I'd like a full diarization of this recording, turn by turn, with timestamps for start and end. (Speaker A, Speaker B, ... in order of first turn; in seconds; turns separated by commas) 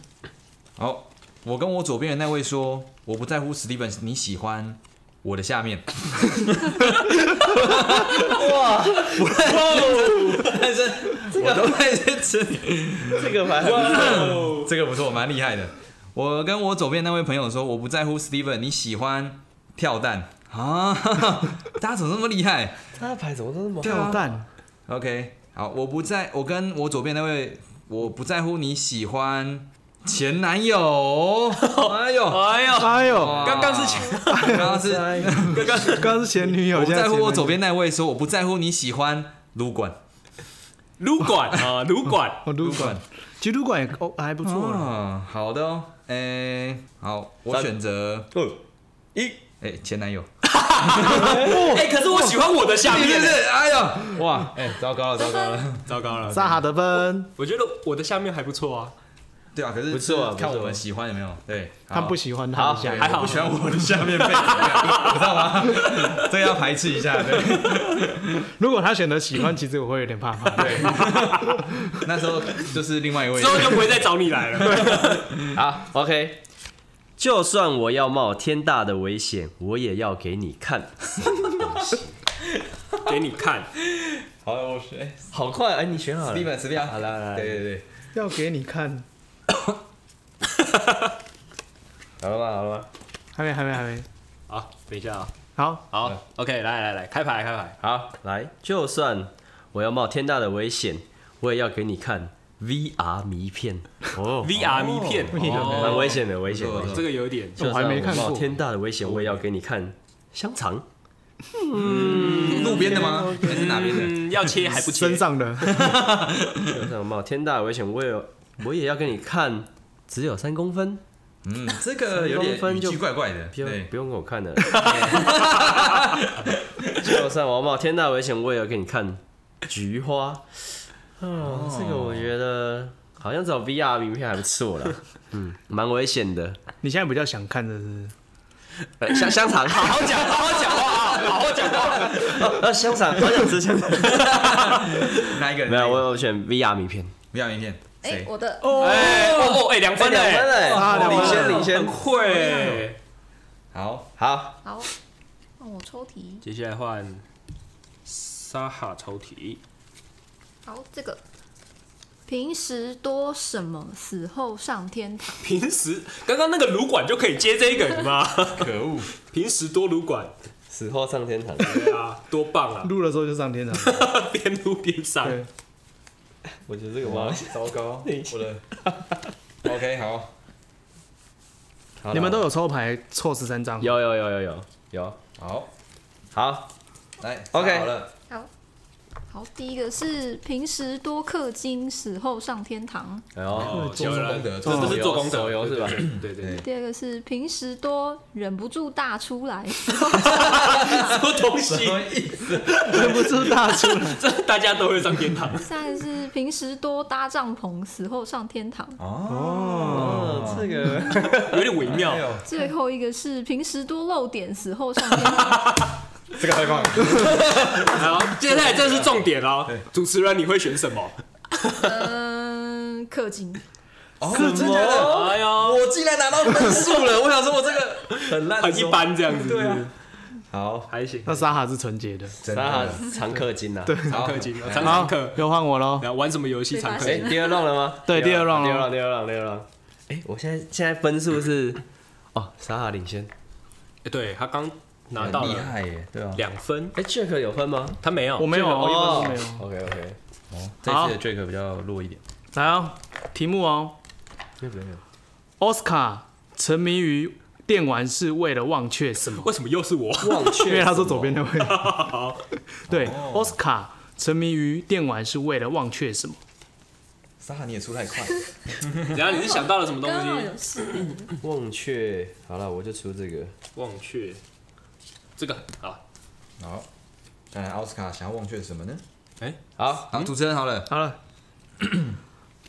Speaker A: 0.8-23.0, Speaker B: 8.2-10.6, Speaker B: 11.3-11.8, Speaker B: 13.1-14.2, Speaker C: 13.6-14.7, Speaker B: 22.9-24.2, Speaker A: 23.8-35.9, Speaker D: 23.8-24.5, Speaker C: 31.6-34.6, Speaker D: 32.8-33.4, Speaker D: 34.3-34.7, Speaker B: 34.5-35.5, Speaker C: 35.4-36.2, Speaker D: 35.8-37.6, Speaker A: 36.5-40.0, Speaker C: 41.0-42.5, Speaker D: 42.4-44.9, Speaker A: 42.6-43.0, Speaker A: 44.4-48.3, Speaker B: 48.3-48.6, Speaker B: 49.1-49.4, Speaker A: 49.6-50.3, Speaker C: 50.5-53.4, Speaker A: 50.8-51.4, Speaker D: 51.1-52.4, Speaker A: 52.8-56.5, Speaker E: 55.2-55.6, Speaker C: 55.9-56.6, Speaker D: 56.3-57.3, Speaker C: 57.4-58.9, Speaker A: 59.5-62.2, Speaker B: 59.9-60.8, Speaker D: 61.9-63.5, Speaker B: 62.5-63.2, Speaker A: 62.8-68.5, Speaker C: 63.0-66.2, Speaker D: 68.6-71.0, Speaker A: 70.5-75.6, Speaker C: 71.0-71.3, Speaker C: 73.3-75.3, Speaker B: 75.5-76.4, Speaker B: 77.2-82.2, Speaker A: 82.9-83.2, Speaker C: 83.0-83.7, Speaker A: 83.8-85.3, Speaker B: 85.3-87.7, Speaker A: 86.3-87.9, Speaker D: 88.1-89.1, Speaker C: 90.6-91.0, Speaker B: 92.2-92.9, Speaker D: 93.3-94.1, Speaker C: 94.5-95.3, Speaker D: 95.6-95.8, Speaker C: 95.9-97.8, Speaker B: 97.8-104.8, Speaker C: 104.4-107.7, Speaker A: 104.6-107.1, Speaker D: 105.3-105.8, Speaker B: 105.4-110.9, Speaker D: 107.6-108.5, Speaker A: 108.1-108.5, Speaker A: 109.0-109.3, Speaker B: 111.6-114.0, Speaker A: 111.8-114.2, Speaker C: 111.8-115.3, Speaker D: 114.6-116.0, Speaker A: 115.6-116.9, Speaker B: 116.7-121.0, Speaker A: 121.4-123.9, Speaker B: 122.1-125.5, Speaker A: 124.8-127.2, Speaker B: 127.0-130.6, Speaker B: 131.2-136.6, Speaker A: 131.4-132.3, Speaker D: 136.8-138.1, Speaker B: 139.0-140.6, Speaker C: 139.2-142.5, Speaker B: 141.9-147.2, Speaker A: 144.2-146.1, Speaker A: 147.3-148.3, Speaker E: 148.0-149.4, Speaker D: 148.6-149.1, Speaker C: 148.7-153.0, Speaker A: 149.0-149.7, Speaker B: 149.9-152.0, Speaker D: 150.7-151.7, Speaker E: 152.0-152.9, Speaker A: 153.7-154.2, Speaker B: 154.2-154.6, Speaker E: 154.6-154.9, Speaker E: 155.6-156.4, Speaker C: 156.4-157.2, Speaker C: 158.1-159.6, Speaker E: 160.7-161.2, Speaker E: 162.3-165.5, Speaker C: 165.4-170.3, Speaker A: 168.5-169.1, Speaker B: 170.7-172.0, Speaker C: 171.6-172.9, Speaker D: 172.8-174.1, Speaker C: 173.8-175.4, Speaker D: 175.2-175.5, Speaker B: 176.6-179.2, Speaker A: 177.0-178.6, Speaker A: 179.6-180.3, Speaker B: 182.0-182.4, Speaker D: 182.1-183.9, Speaker B: 183.8-185.2, Speaker A: 185.4-185.7, Speaker B: 186.3-186.7, Speaker A: 187.2-188.1, Speaker B: 187.5-187.9, Speaker E: 189.3-193.3, Speaker B: 193.4-196.1, Speaker A: 193.5-195.2, Speaker C: 193.5-196.6, Speaker D: 194.7-194.9, Speaker A: 195.9-196.7, Speaker E: 196.6-200.3, Speaker C: 199.9-205.7, Speaker A: 200.4-203.5, Speaker D: 202.9-204.2, Speaker E: 205.6-209.0, Speaker A: 209.0-210.7, Speaker D: 209.3-210.4, Speaker B: 209.8-211.6, Speaker C: 211.4-212.3, Speaker A: 211.8-212.5, Speaker E: 212.4-215.8, Speaker C: 215.2-215.9, Speaker A: 216.4-219.8, Speaker C: 217.1-221.9, Speaker E: 221.8-223.6, Speaker A: 224.2-229.9, Speaker B: 224.3-225.4, Speaker D: 224.4-224.7, Speaker C: 224.9-225.8, Speaker C: 228.1-229.9, Speaker A: 230.5-230.9, Speaker C: 230.9-231.4, Speaker D: 231.2-232.4, Speaker A: 232.4-233.1, Speaker B: 232.4-234.0, Speaker D: 233.9-234.2, Speaker A: 234.1-235.1, Speaker C: 234.1-237.4, Speaker D: 234.8-236.1, Speaker E: 236.7-237.7, Speaker B: 237.0-241.8, Speaker D: 238.1-238.9, Speaker B: 242.3-243.3, Speaker C: 244.0-245.8, Speaker A: 245.2-246.4, Speaker C: 246.3-247.0, Speaker B: 247.0-248.0, Speaker C: 248.0-248.6, Speaker D: 248.4-249.7, Speaker B: 248.5-250.2, Speaker A: 250.5-252.2, Speaker D: 250.9-251.2, Speaker D: 252.5-254.0, Speaker B: 254.6-255.0, Speaker D: 255.6-259.5, Speaker C: 259.4-260.7, Speaker B: 260.2-261.5, Speaker D: 260.6-261.9, Speaker C: 261.6-262.4, Speaker D: 262.9-266.4, Speaker A: 262.9-263.6, Speaker A: 267.4-269.0, Speaker C: 269.1-271.1, Speaker E: 269.2-271.4, Speaker B: 271.4-273.5, Speaker C: 273.8-274.4, Speaker C: 275.4-276.0, Speaker A: 276.6-276.9, Speaker A: 277.5-279.0, Speaker B: 279.8-280.1, Speaker A: 280.1-280.9, Speaker D: 280.9-281.2, Speaker A: 281.8-282.2